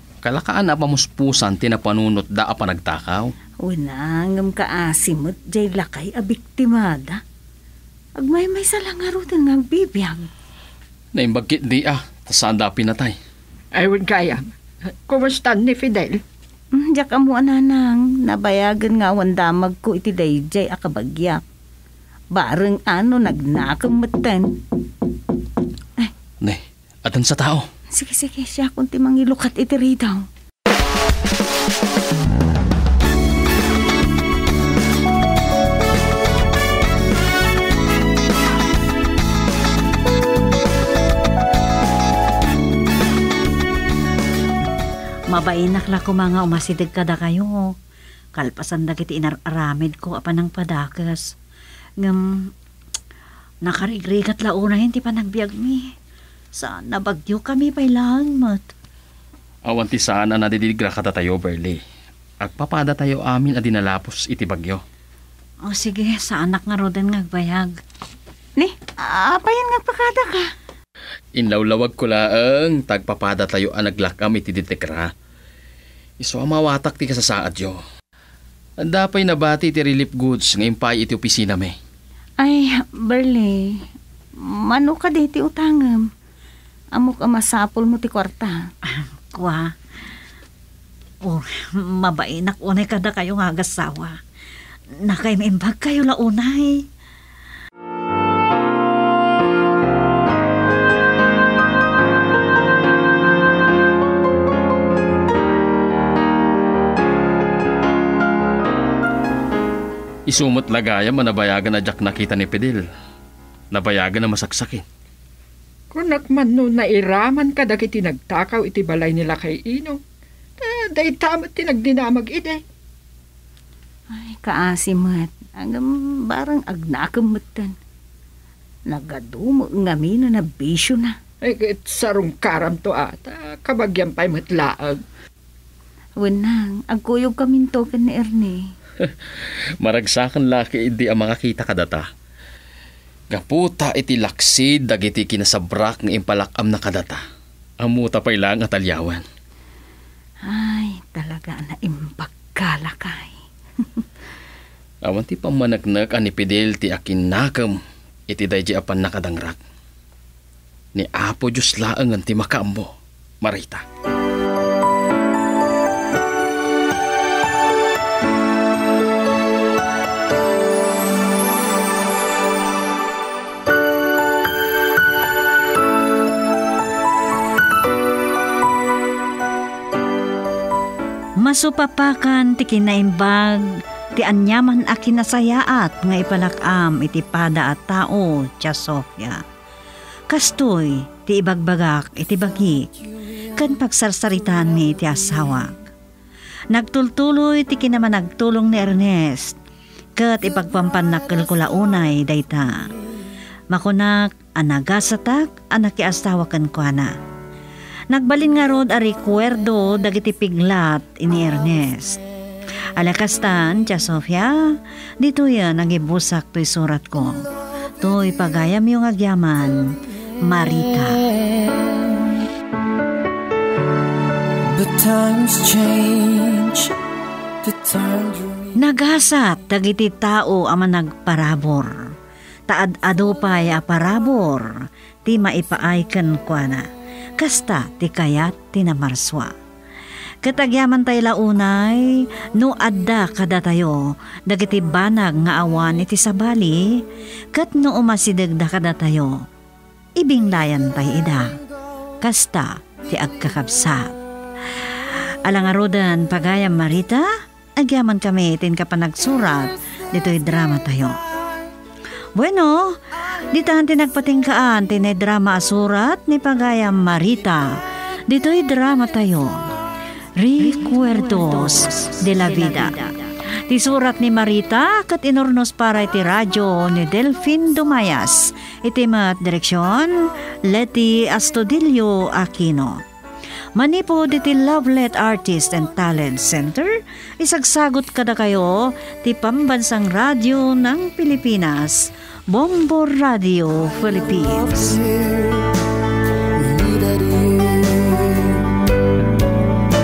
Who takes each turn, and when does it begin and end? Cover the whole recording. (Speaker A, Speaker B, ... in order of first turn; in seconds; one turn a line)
Speaker A: 0.2-3.3
Speaker B: 3.6-7.2
Speaker B: 8.2-10.3
Speaker A: 11.1-13.2
Speaker C: 13.7-14.4
Speaker C: 15.1-16.2
Speaker B: 16.7-21.4
Speaker B: 22.3-24.6
Speaker A: 26.4-27.7
Speaker B: 27.9-30.2
Speaker D: 45.3-47.7
Speaker D: 48.3-51.3
Speaker D: 52.0-52.5
Speaker D: 53.6-55.9
Speaker D: 56.5-58.7
Speaker A: 59.6-61.8
Speaker A: 62.4-64.8
Speaker D: 65.6-67.8
Speaker B: 68.6-70.5
Speaker A: 71.3-75.1
Speaker A: 76.2-77.8
Speaker A: 78.8-81.7
Speaker B: 82.4-83.8
Speaker B: 84.4-86.1
Speaker B: 87.0-88.6
Speaker D: 88.9-89.7
Speaker D: 91.2-94.2
Speaker D: 95.0-96.8
Speaker A: 110.3-112.8
Speaker A: 113.7-114.8
Speaker C: 115.9-120.0
Speaker C: 120.6-122.6
Speaker B: 124.1-127.7
Speaker B: 128.9-131.2
Speaker C: 131.4-135.0
Speaker B: 136.2-138.7
Speaker A: 139.0-142.1
Speaker A: 143.3-147.2
Speaker A: 147.8-149.2
Speaker B: 150.4-154.1
Speaker A: 155.0-159.6
Speaker A: 160.9-163.8
Speaker D: 181.4-189.4
Speaker D: 190.3-192.9
Speaker D: 193.5-195.8
Speaker D: 196.7-199.6
Speaker D: 200.2-202.9
Speaker D: 203.7-207.1
Speaker D: 208.1-212.2
Speaker D: 212.9-217.4
Speaker D: 218.0-221.2
Speaker E: 221.3-222.3
Speaker E: 224.7-226.9
Speaker E: 227.6-228.8
Speaker D: 228.8-232.1
Speaker D: 232.7-236.9
Speaker D: 237.4-239.5
Speaker D: 240.4-249.4
Speaker D: 250.2-251.6
Speaker D: 252.2-254.2
Speaker D: 254.9-261.2
Speaker D: 262.4-269.6
Speaker D: 270.4-283.0
Speaker D: 283.8-295.0
Speaker E: 294.1-295.7
Speaker E: 296.6-298.7